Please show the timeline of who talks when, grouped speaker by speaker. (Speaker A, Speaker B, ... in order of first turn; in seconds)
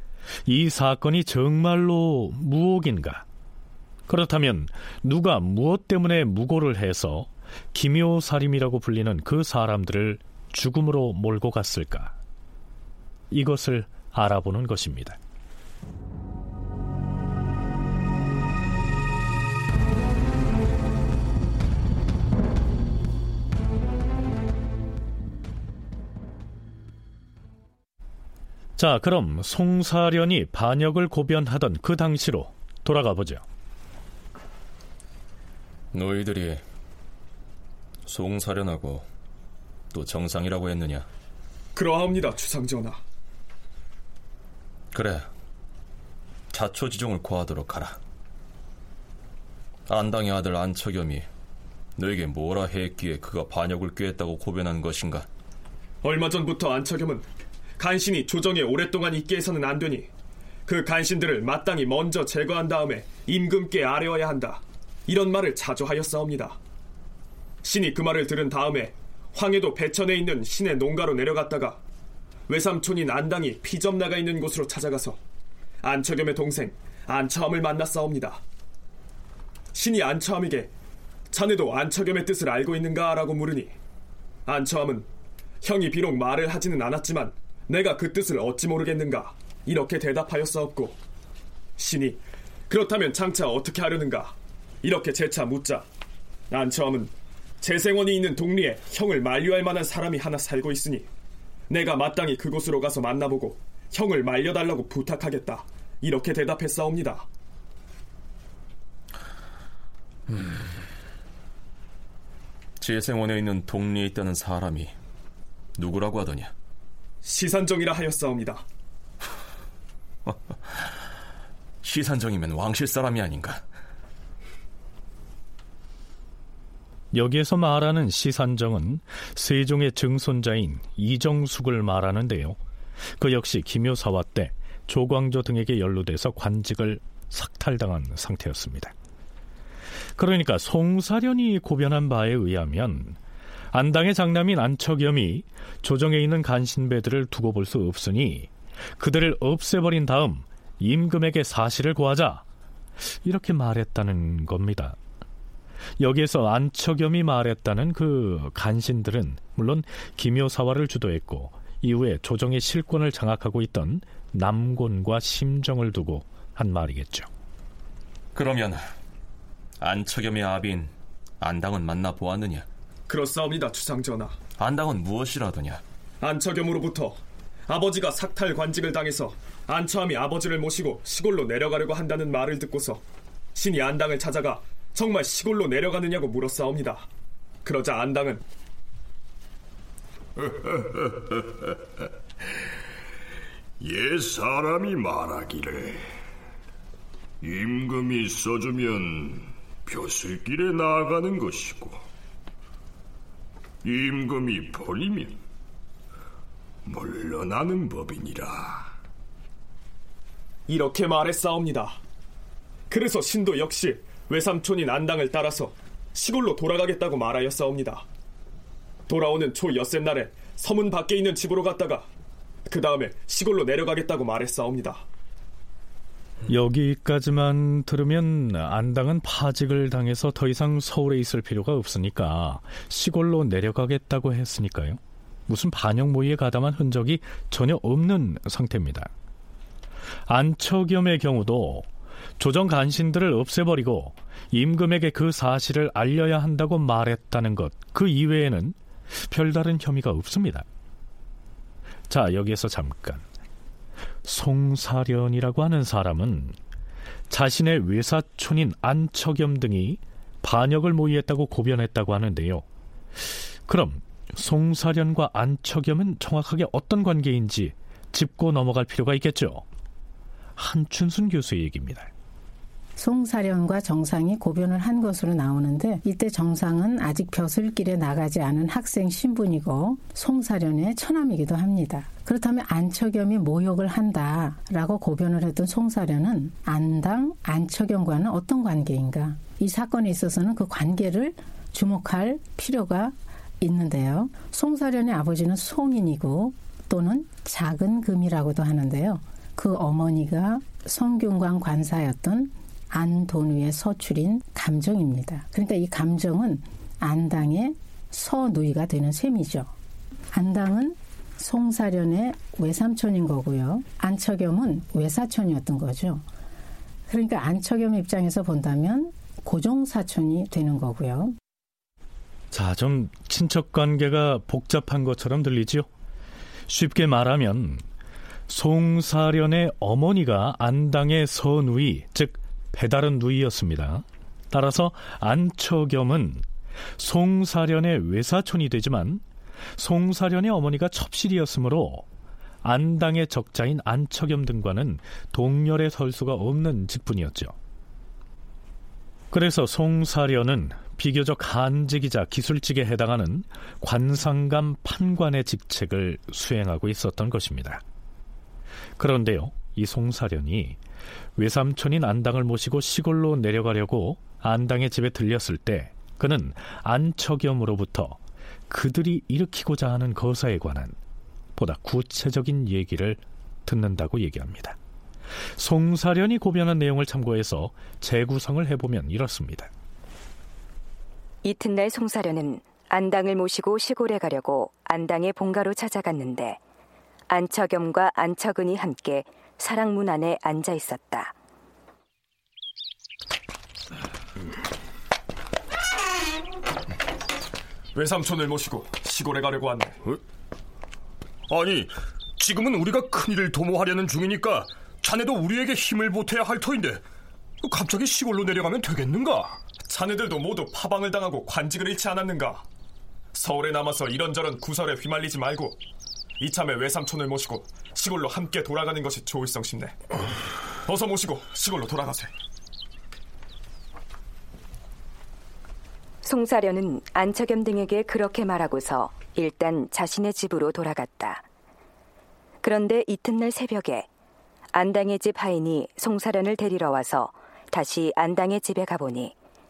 Speaker A: 0.5-3.2, 4.1-12.1, 13.3-15.2, 28.8-33.4, 127.1-132.6, 133.2-138.9, 140.2-143.2, 143.7-152.4, 153.2-155.0, 156.0-167.3, 226.5-239.1, 240.3-241.9, 242.4-250.7, 252.1-253.2, 254.2-256.6, 257.3-262.6, 263.2-269.6, 270.6-272.1, 322.5-325.9, 326.7-327.8, 328.5-336.4, 337.0-339.2, 339.8-342.1, 342.6-347.5, 349.3-357.8, 359.0-360.8, 361.4-370.9, 371.6-374.8, 375.6-379.7
Speaker B: 35.9-36.6, 38.0-39.0, 39.9-41.0, 44.9-45.3, 46.5-48.0, 49.9-51.3, 52.0-55.3, 112.8-114.9, 115.8-116.5, 121.8-123.6, 168.3-168.8, 169.8-172.7, 174.6-175.8
Speaker C: 41.7-43.0, 56.0-57.2, 57.8-60.1, 60.6-66.6, 67.6-71.8, 72.5-75.2, 75.8-78.4, 79.7-80.7, 81.3-83.7, 84.5-85.1, 85.6-91.0, 91.8-95.8, 96.5-101.1, 101.7-107.2, 117.2-118.6, 173.1-174.3, 176.2-183.0, 183.5-187.1, 187.6-188.4, 210.7-212.0, 212.9-218.1, 219.1-222.1, 222.7-225.0, 397.9-399.9, 409.9-412.6, 413.3-415.8, 416.4-419.9, 420.9-422.3
Speaker D: 193.8-196.0, 197.4-202.0, 203.8-205.4, 206.8-208.9, 401.5-407.0, 407.6-409.6
Speaker E: 273.0-309.7, 310.3-316.2, 317.1-321.4
Speaker F: 381.4-386.6, 387.3-391.3, 426.2-431.4, 432.6-434.1, 434.7-439.3